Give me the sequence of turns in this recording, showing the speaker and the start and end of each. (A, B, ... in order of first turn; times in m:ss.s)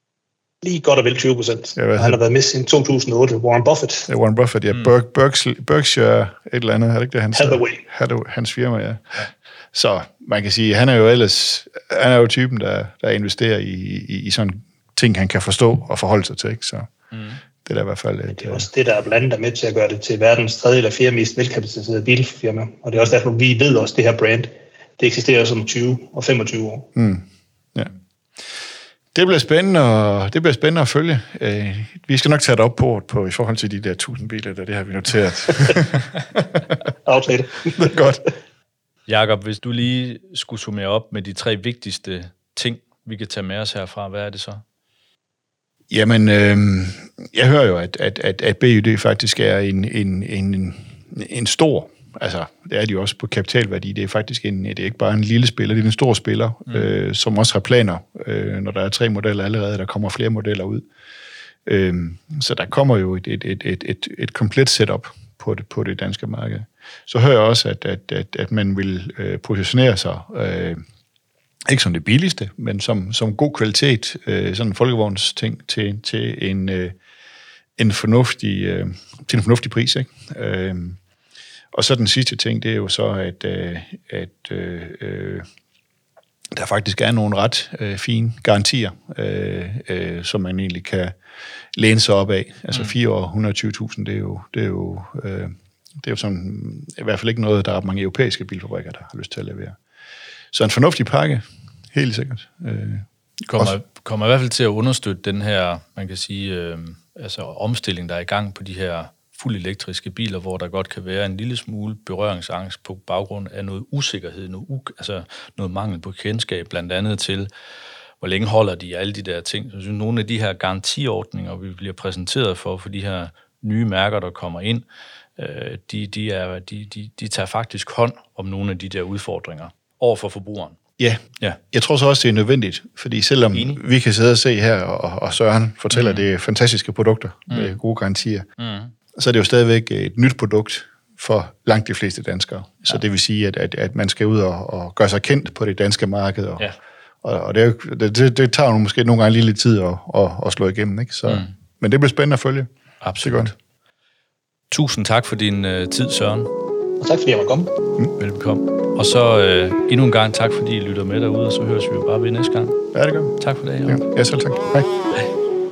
0:00.6-0:04.1 A
0:01.8-0:02.2 B
0:04.1-0:16.9 B
0:07.3-0:07.8 A
0:17.6-0:18.7 B
0:18.4-0:26.9 A
0:27.0-0:27.9 B
0:29.1-0:36.6 B
0:37.0-0:38.0 A
0:37.7-0:38.2 B
0:39.1-0:44.6 C
0:45.9-1:00.8 B
1:01.6-1:10.8 B
1:11.7-1:16.9 B
1:17.8-1:21.0 B
1:21.7-1:25.4 B
1:26.5-1:31.1 B
1:31.8-1:39.8 B
1:40.5-1:43.0 B
1:43.5-1:57.5 C
1:58.2-2:04.8 C
2:05.4-2:10.8 C
2:11.0-2:18.4 B
2:13.5-2:13.8 C
2:15.9-2:16.2 C
2:17.5-2:17.8 C
2:18.6-2:18.9 C
2:19.2-2:26.7 B
2:27.2-2:32.7 B
2:31.2-2:31.5 C
2:33.0-2:33.5 C
2:33.2-2:33.5 B
2:34.7-2:36.5 C
2:37.0-2:37.7 A
2:38.2-2:42.8 C
2:42.9-2:43.3 B
2:43.4-2:44.0 C
2:43.8-2:44.9 B